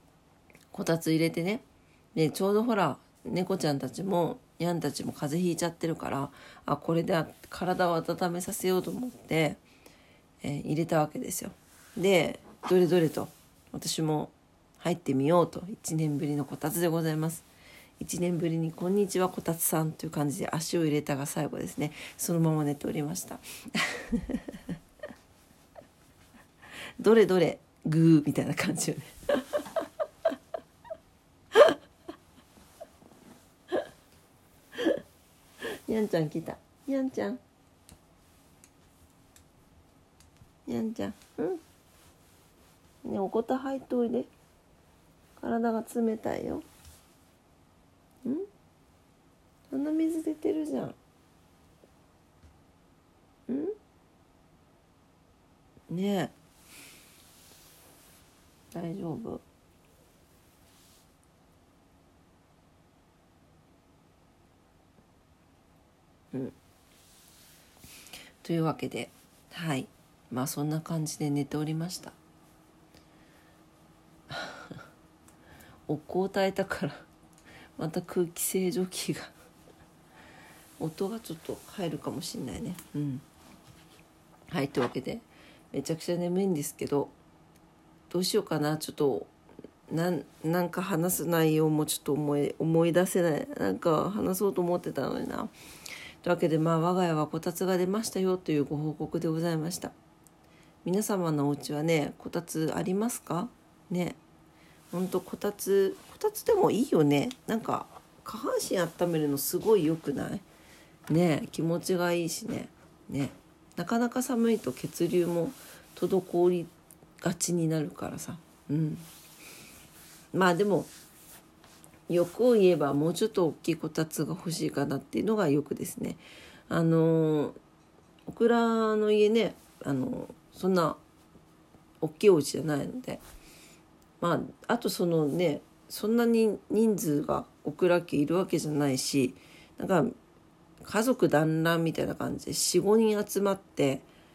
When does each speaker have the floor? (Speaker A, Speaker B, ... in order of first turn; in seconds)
Speaker A: 0.7-9.6, 10.4-17.5, 18.0-24.6, 27.0-29.6, 35.9-37.4, 40.7-41.6, 43.0-44.3, 45.4-46.6, 49.7-51.0, 53.5-53.7, 55.9-56.3, 58.7-59.4, 68.4-72.2, 74.3-74.8, 75.9-77.1, 77.8-79.3, 80.8-83.2, 84.5-87.2, 88.1-89.3, 89.9-95.5, 96.2-99.9, 100.8-104.2, 104.9-110.4, 111.1-119.1, 120.3-120.9, 122.1-127.6, 128.2-131.0, 132.0-133.2, 134.2-140.1, 140.8-144.1